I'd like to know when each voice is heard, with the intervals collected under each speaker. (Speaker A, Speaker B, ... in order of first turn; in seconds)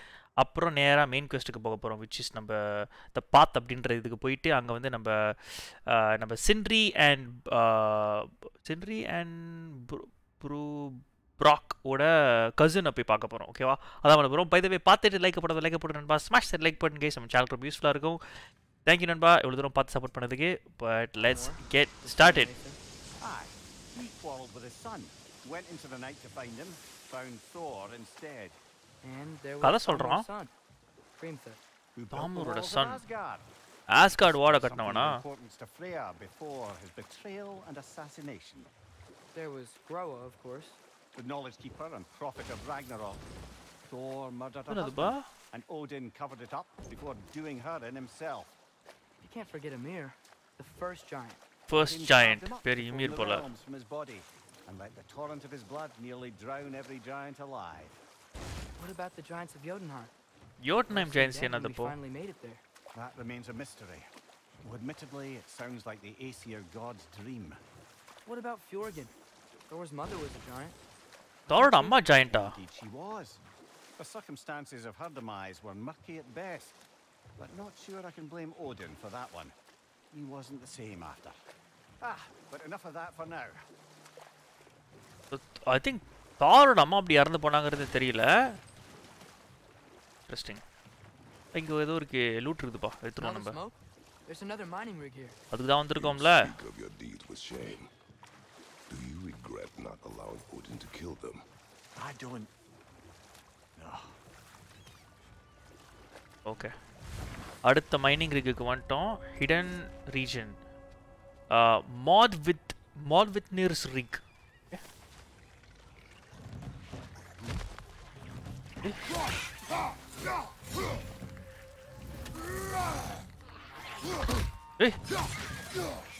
Speaker A: 0.4-18.2, 18.9-22.5, 29.6-30.2, 32.1-33.0, 33.9-35.2, 44.7-45.3, 51.7-53.5, 60.6-61.9, 71.5-72.5, 85.3-88.3, 90.3-90.6, 91.5-93.6, 95.5-96.5, 106.5-106.7, 107.6-110.5, 111.5-114.8
Speaker B: 21.1-22.8, 29.0-30.5, 31.2-31.6, 39.3-40.8, 49.2-51.4, 58.8-60.1, 60.9-62.6, 68.2-69.1, 69.7-70.8, 71.5-71.9, 93.2-95.4
Speaker C: 23.2-28.6, 31.9-33.5, 34.1-38.7, 41.1-43.2, 43.9-48.5, 51.8-58.0, 62.9-64.1, 64.6-67.6, 72.2-73.4, 74.0-76.8, 77.4-79.5, 80.1-81.4, 82.0-83.6, 102.0-102.5, 103.8-104.2
Speaker D: 95.9-97.9, 98.9-101.5